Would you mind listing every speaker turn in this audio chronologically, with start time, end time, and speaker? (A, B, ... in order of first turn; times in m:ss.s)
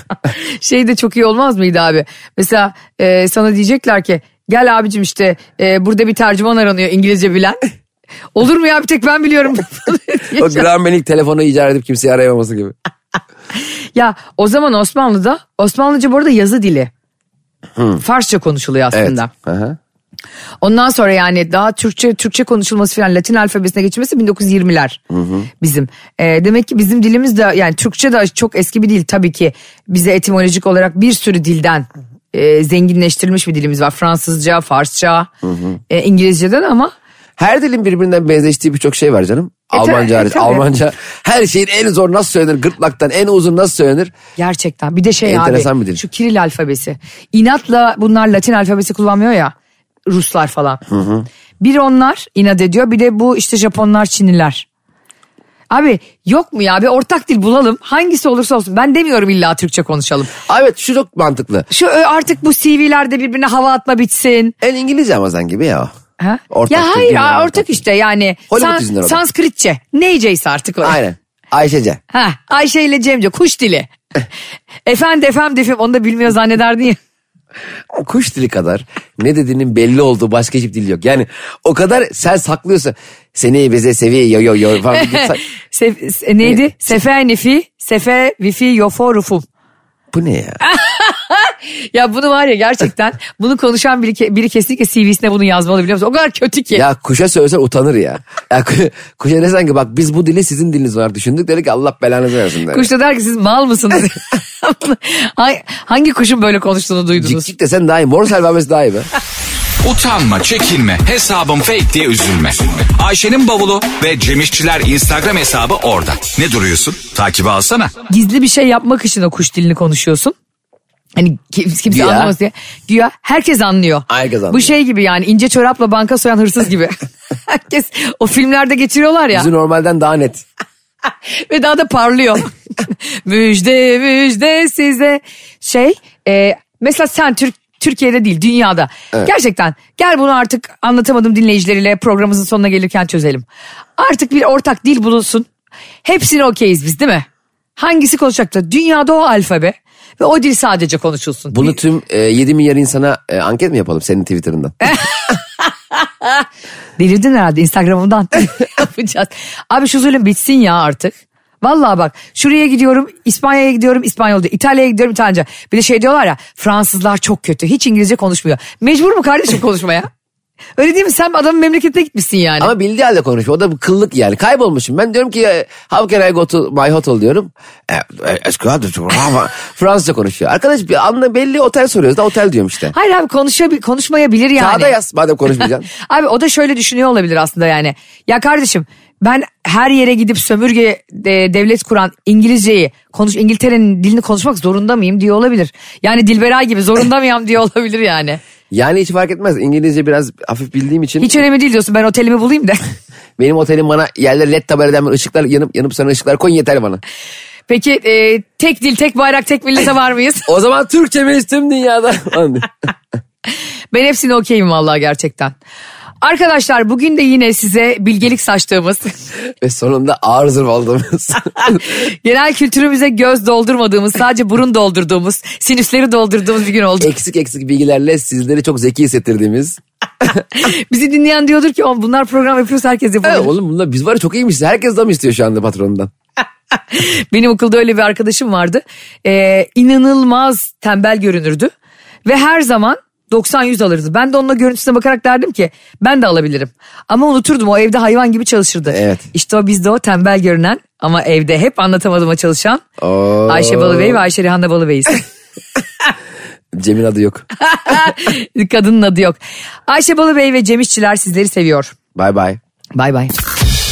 0:00.3-0:07.6 A
0:08.3-0:10.6 A
0:10.4-0:12.8 B
0:13.9-0:16.9 A
0:17.8-0:18.0 B
0:18.0-0:19.3 A
0:18.9-0:19.8 B
0:20.6-0:25.0 A
0:25.1-0:25.5 B
0:25.6-0:35.3 A
0:35.4-0:35.7 B
0:35.9-0:36.9 A
0:37.4-0:44.1 B
0:39.7-0:40.6 A
0:44.4-0:49.5 A
0:45.2-0:46.0 B
0:50.1-0:50.8 A
0:50.9-0:51.3 B
0:51.6-0:54.6 A
0:55.7-1:00.3 A
1:00.4-1:01.7 B
1:01.7-1:04.6 A
1:04.6-1:05.9 B
1:06.2-1:11.0 A
1:06.5-1:07.8 B
1:08.5-1:09.2 B
1:10.8-1:12.0 B
1:12.1-1:13.9 A
1:14.9-1:17.0 A
1:17.9-1:25.4 B
1:24.9-1:29.4 A
1:30.1-1:30.6 B
1:30.6-1:36.8 A
1:36.7-1:42.9 B
1:42.7-1:47.5 A
1:47.2-1:49.1 B
1:49.8-1:57.9 C
1:58.1-2:00.4 A
2:01.2-2:09.5 A
2:01.9-2:02.3 B
2:04.1-2:04.8 B
2:09.3-2:10.4 B
2:11.3-2:23.4 A
2:24.0-2:25.5 A
2:26.0-2:31.8 A
2:31.5-2:34.8 B
2:34.8-2:35.7 A
2:37.0-2:50.1 A
2:50.8-2:52.7 A
2:52.6-3:02.9 B
3:02.9-3:04.9 A
3:04.6-3:05.9 B
3:06.0-3:18.4 A
3:18.7-3:21.4 B
3:21.2-3:22.8 A
3:23.4-3:27.0 B
3:27.7-3:30.5 A
3:30.5-3:32.7 B
3:33.9-3:35.6 A
3:36.2-3:39.3 A
3:39.6-3:42.0 B
3:41.9-3:47.1 A
3:47.0-3:49.8 B
3:50.3-3:53.5 A
3:53.2-3:56.1 B
3:56.9-4:01.7 A
4:02.2-4:12.8 A
4:08.9-4:09.3 B
4:13.0-4:14.2 B
4:13.5-4:15.2 A
4:16.7-4:17.4 B
4:17.7-4:21.9 A
4:22.1-4:22.6 B
4:23.0-4:23.3 A